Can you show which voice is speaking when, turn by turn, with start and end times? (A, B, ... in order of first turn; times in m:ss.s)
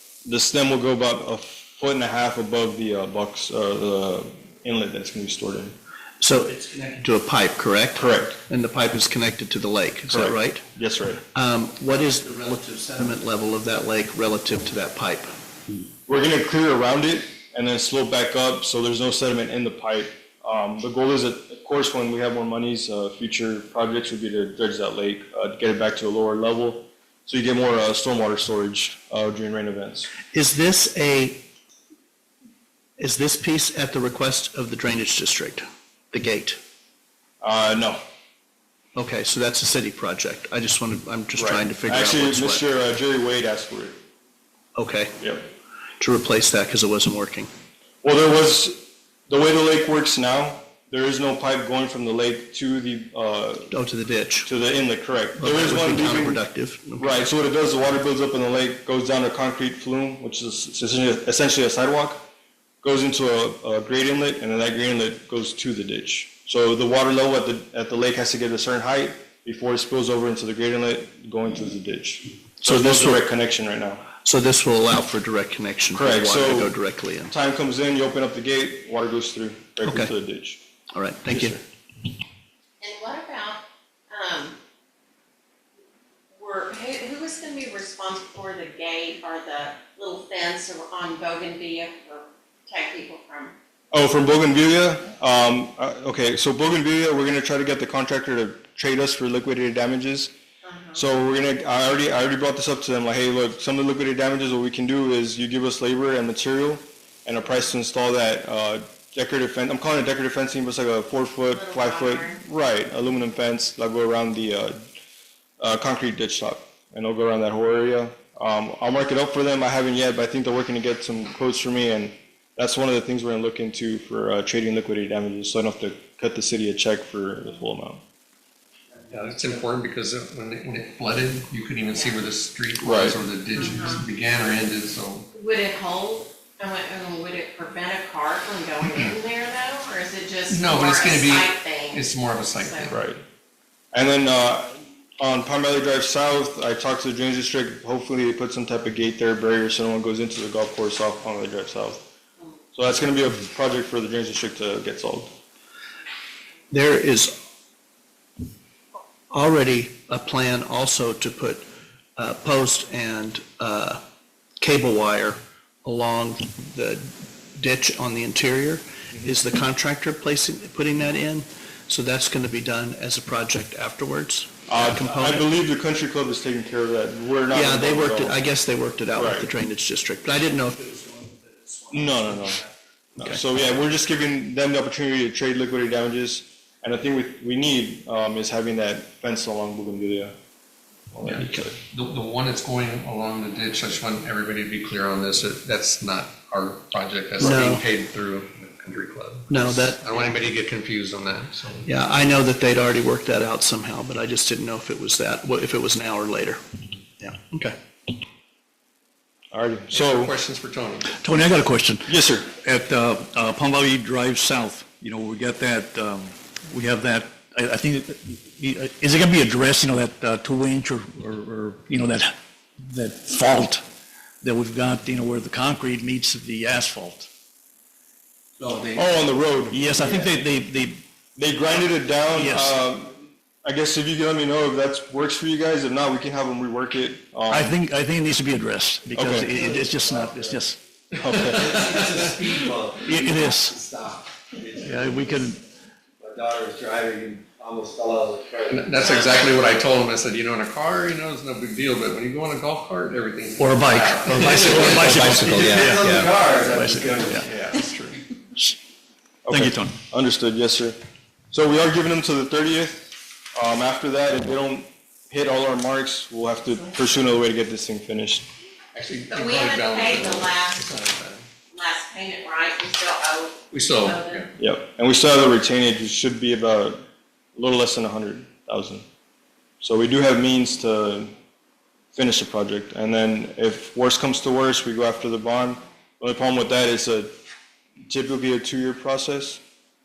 0:00.3-0:05.7 A
0:06.2-0:10.6 B
0:08.0-0:08.4 A
0:10.1-0:11.2 A
0:11.3-0:15.4 B
0:16.1-0:30.1 A
0:30.3-0:31.4 B
0:33.0-0:36.6 B
0:37.4-0:38.0 A
0:39.0-0:42.6 B
0:41.4-0:44.0 A
0:44.8-0:45.2 B
0:46.0-0:47.5 B
0:48.0-0:53.7 A
0:53.7-0:54.5 B
0:54.4-0:56.4 A
0:55.4-0:57.2 B
0:57.0-1:02.2 A
1:02.8-1:14.0 A
1:12.6-1:13.2 B
1:14.2-1:17.3 B
1:16.0-1:16.8 A
1:17.3-1:20.6 A
1:19.8-1:20.1 B
1:20.9-1:21.6 B
1:21.3-1:21.6 A
1:22.8-1:24.6 C
1:26.4-1:33.5 C
1:33.9-1:40.3 A
1:40.6-1:41.0 C
1:40.9-1:54.8 A
1:51.5-1:52.4 C
1:55.6-2:08.0 A
2:09.1-2:15.3 D
2:12.8-2:13.2 A
2:13.6-2:14.0 C
2:15.3-2:23.0 C
2:20.5-2:23.0 D
2:22.9-2:23.2 A
2:23.9-2:32.0 A
2:32.8-2:35.3 A
2:36.7-2:37.3 B
2:39.3-2:41.6 B
2:42.2-2:44.0 B
2:44.6-2:55.5 B
2:54.7-2:58.4 A
2:57.5-3:03.4 B
2:59.2-2:59.5 A
3:01.9-3:02.6 A
3:03.2-3:10.3 A
3:11.1-3:11.8 A
3:11.2-3:21.9 D
3:17.4-3:17.8 B
3:19.5-3:20.1 B
3:21.8-3:26.6 B
3:27.2-3:27.8 B
3:29.5-3:30.3 A
3:29.9-3:31.2 D
3:31.1-3:43.8 E
3:32.1-3:32.5 A
3:44.4-3:47.3 E
3:48.6-3:49.0 F
3:48.9-3:50.3 A
3:49.7-3:51.0 E
3:51.4-3:57.7 A
3:52.4-3:52.8 E
3:57.5-4:01.8 E
3:59.2-3:59.5 A
3:59.5-4:00.6 F
4:01.2-4:01.7 A
4:01.6-4:05.2 F
4:01.7-4:02.4 D
4:03.0-4:03.8 E
4:04.8-4:05.6 E
4:06.2-4:09.1 F
4:08.7-4:16.3 D
4:09.2-4:09.4 C
4:13.6-4:17.5 E
4:14.4-4:17.8 F
4:19.5-4:21.0 A
4:19.5-4:20.0 E
4:21.5-4:28.5 A
4:28.9-4:31.5 D
4:29.3-4:30.9 C
4:31.7-4:34.5 C
4:33.7-4:34.5 D
4:34.6-4:37.0 A
4:37.6-4:39.0 A
4:39.8-4:41.3 A
4:42.2-4:47.3 A
4:48.1-4:49.6 A